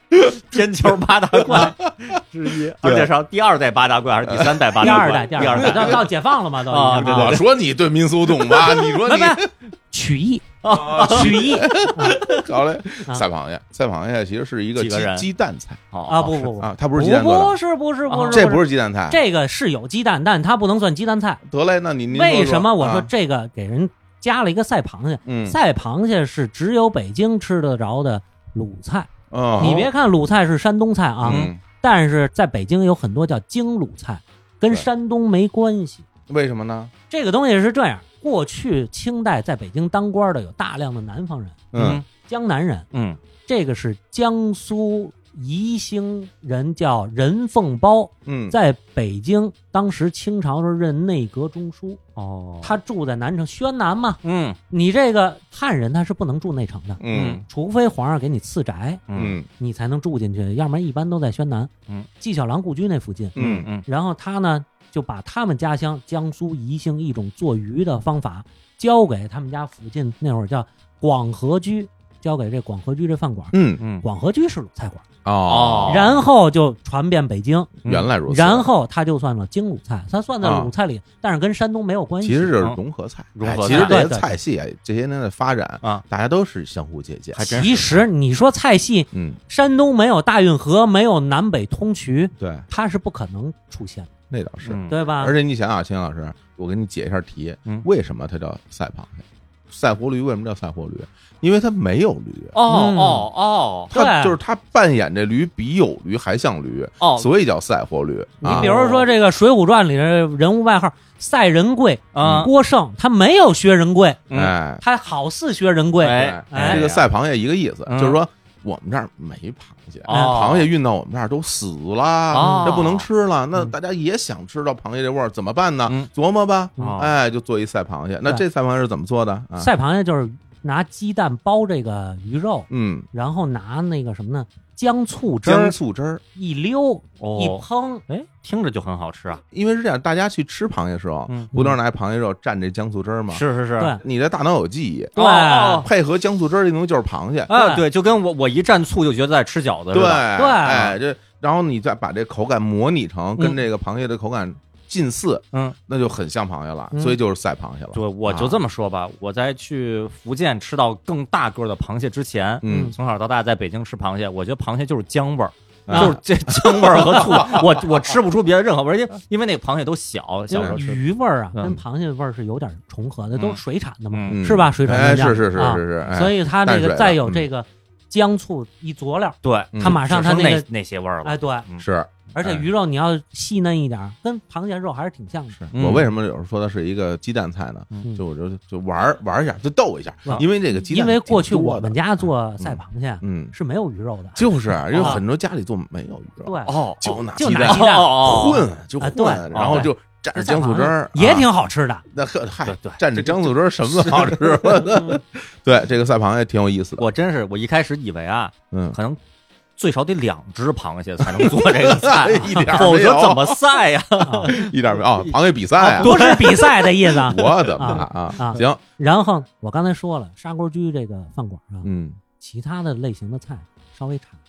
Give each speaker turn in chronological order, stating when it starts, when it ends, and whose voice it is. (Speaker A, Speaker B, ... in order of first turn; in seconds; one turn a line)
Speaker A: 0.1-0.4
Speaker B: 0.3-6.1
Speaker A: 1.4-3.1
Speaker A: 4.2-6.1
Speaker C: 4.8-7.4
Speaker B: 6.7-7.5
Speaker A: 6.9-9.5
Speaker B: 8.5-8.8
Speaker C: 8.8-12.2
Speaker B: 10.6-11.5
Speaker A: 10.7-15.8
Speaker B: 14.8-15.3
Speaker B: 15.9-16.5
Speaker C: 16.1-21.4
Speaker A: 16.4-17.6
Speaker B: 18.1-18.4
Speaker A: 18.3-19.2
Speaker A: 21.4-23.1
Speaker C: 22.1-36.0
Speaker A: 25.2-25.6
Speaker A: 29.3-29.9
Speaker B: 29.6-29.9
Speaker A: 31.2-31.6
Speaker B: 31.2-31.5
Speaker A: 36.3-36.9
Speaker C: 37.1-41.6
Speaker A: 41.7-42.0
Speaker B: 41.7-42.0
Speaker C: 42.2-42.9
Speaker B: 42.9-43.2
Speaker C: 43.5-52.0
Speaker A: 48.2-48.5
Speaker B: 52.1-52.8
Speaker C: 52.6-59.0
Speaker B: 54.2-54.6
Speaker A: 57.0-57.4
Speaker B: 57.1-57.4
Speaker B: 59.1-59.4
Speaker A: 59.1-59.5
Speaker C: 59.6-75.0
Speaker A: 63.4-63.7
Speaker B: 63.4-63.8
Speaker A: 73.5-73.8
Speaker B: 73.8-74.0
Speaker A: 75.2-76.1
Speaker B: 75.5-76.2
Speaker C: 75.9-77.7
Speaker A: 77.8-78.7
Speaker C: 78.3-82.6
Speaker A: 80.4-80.7
Speaker A: 82.2-87.6
Speaker B: 83.3-84.0
Speaker C: 83.7-84.3
Speaker B: 87.3-88.0
Speaker C: 87.5-94.1
Speaker A: 89.1-89.4
Speaker A: 92.4-92.7
Speaker A: 94.3-102.6
Speaker B: 94.6-95.0
Speaker C: 94.9-95.3
Speaker B: 102.5-103.9
Speaker C: 102.7-103.3
Speaker C: 103.9-104.4
Speaker A: 103.9-108.7
Speaker B: 107.0-107.3
Speaker C: 108.4-114.2
Speaker B: 108.4-109.1
Speaker B: 112.1-112.5
Speaker A: 112.2-112.5
Speaker B: 114.3-114.5
Speaker A: 114.3-114.8
Speaker C: 114.8-116.9
Speaker B: 116.0-117.0
Speaker A: 116.1-129.7
Speaker B: 117.9-118.2
Speaker B: 120.0-120.7
Speaker C: 120.1-120.4
Speaker B: 122.3-123.1
Speaker C: 122.3-122.8
Speaker B: 126.8-127.1
Speaker C: 129.6-135.8
Speaker A: 132.7-133.1
Speaker A: 135.4-136.2
Speaker C: 136.3-138.0
Speaker B: 137.2-139.4
Speaker A: 139.5-143.4
Speaker B: 143.3-143.9
Speaker A: 144.0-145.2
Speaker C: 145.2-145.9
Speaker B: 145.2-145.9
Speaker A: 145.8-147.5
Speaker B: 147.5-150.3
Speaker C: 147.5-147.8
Speaker A: 149.9-158.6
Speaker C: 150.4-150.9
Speaker C: 156.9-157.2
Speaker B: 157.9-171.0
Speaker A: 162.6-162.9
Speaker C: 162.6-162.9
Speaker A: 165.9-168.1
Speaker C: 165.9-166.2
Speaker C: 170.5-180.7
Speaker A: 170.5-170.8
Speaker B: 174.1-174.4
Speaker A: 174.3-177.5
Speaker B: 179.4-181.8
Speaker A: 179.7-180.0
Speaker C: 181.2-181.7
Speaker A: 181.8-182.6
Speaker C: 182.3-185.6
Speaker A: 185.6-193.5
Speaker B: 185.7-186.1
Speaker C: 190.2-195.2
Speaker A: 194.4-201.5
Speaker B: 194.9-195.2
Speaker C: 196.4-196.8
Speaker B: 196.7-198.6
Speaker C: 197.3-202.0
Speaker B: 199.5-199.9
Speaker A: 202.1-207.1
Speaker B: 202.7-204.9
Speaker B: 207.0-209.2
Speaker A: 208.7-209.0
Speaker B: 209.8-216.9
Speaker A: 211.2-213.6
Speaker C: 212.5-212.8
Speaker C: 214.2-214.5
Speaker A: 214.5-216.5
Speaker C: 215.9-224.4
Speaker A: 217.1-218.8
Speaker A: 221.8-222.2